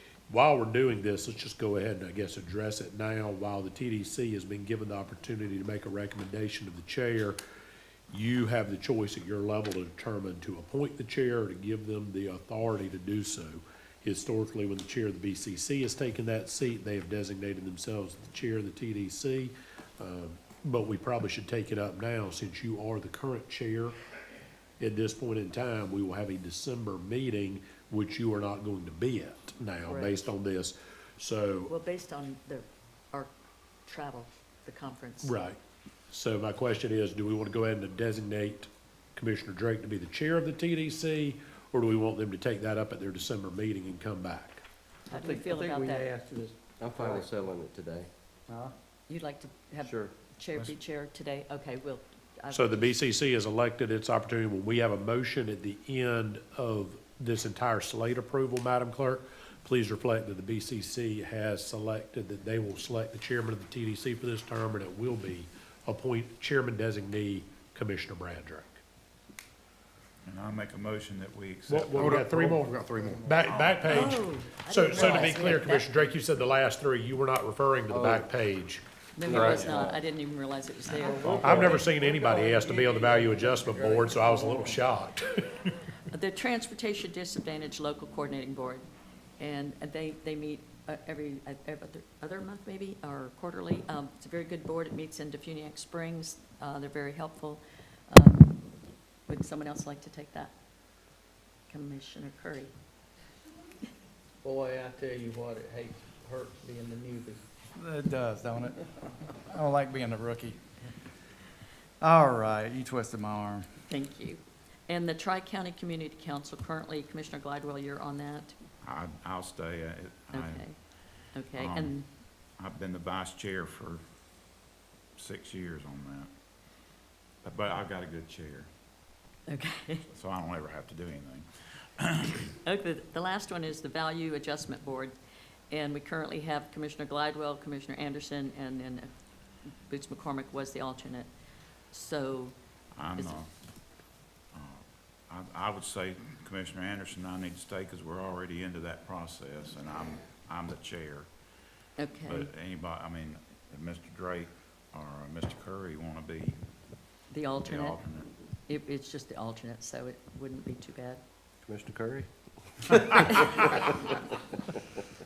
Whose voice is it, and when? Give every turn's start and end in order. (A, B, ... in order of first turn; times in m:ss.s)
0:00.3-0:07.4 A
0:08.1-0:24.0 A
0:24.8-0:31.7 A
0:29.8-0:30.3 B
0:31.7-0:33.3 B
0:33.8-0:35.3 B
0:35.2-0:35.6 A
0:36.1-0:44.6 A
0:45.1-0:47.3 C
0:45.1-0:46.1 B
0:46.8-0:48.1 D
0:48.5-0:48.8 C
0:49.1-0:53.0 B
0:49.8-0:50.1 D
0:52.5-1:08.8 A
1:10.2-1:14.2 E
1:11.7-1:18.8 A
1:12.9-1:13.4 C
1:13.8-1:16.1 B
1:17.9-1:18.3 D
1:19.2-1:21.9 B
1:19.2-1:20.0 D
1:20.9-1:24.9 C
1:21.1-1:21.6 E
1:21.4-1:25.7 A
1:26.1-1:28.8 B
1:29.4-1:38.6 B
1:39.2-1:40.5 B
1:41.7-1:42.7 B
1:44.4-1:47.4 C
1:47.8-1:48.8 F
1:49.4-1:50.6 F
1:52.0-1:53.7 F
1:53.9-1:58.5 B
1:58.8-2:00.7 E
2:00.3-2:00.8 B
2:01.3-2:02.1 B
2:01.6-2:01.9 E
2:02.5-2:04.0 E
2:05.2-2:06.3 E
2:07.4-2:08.7 E
2:09.5-2:10.0 B
2:10.1-2:11.5 E
2:12.0-2:12.5 E
2:12.6-2:15.2 B
2:15.7-2:19.1 B
2:19.8-2:21.3 B
2:21.9-2:22.6 B
2:22.9-2:23.5 E
2:24.5-2:31.3 E
2:32.0-2:32.5 B
2:32.2-2:36.6 E
2:37.3-2:38.0 B
2:37.6-2:38.3 E
2:38.7-2:41.2 B
2:41.6-2:44.2 D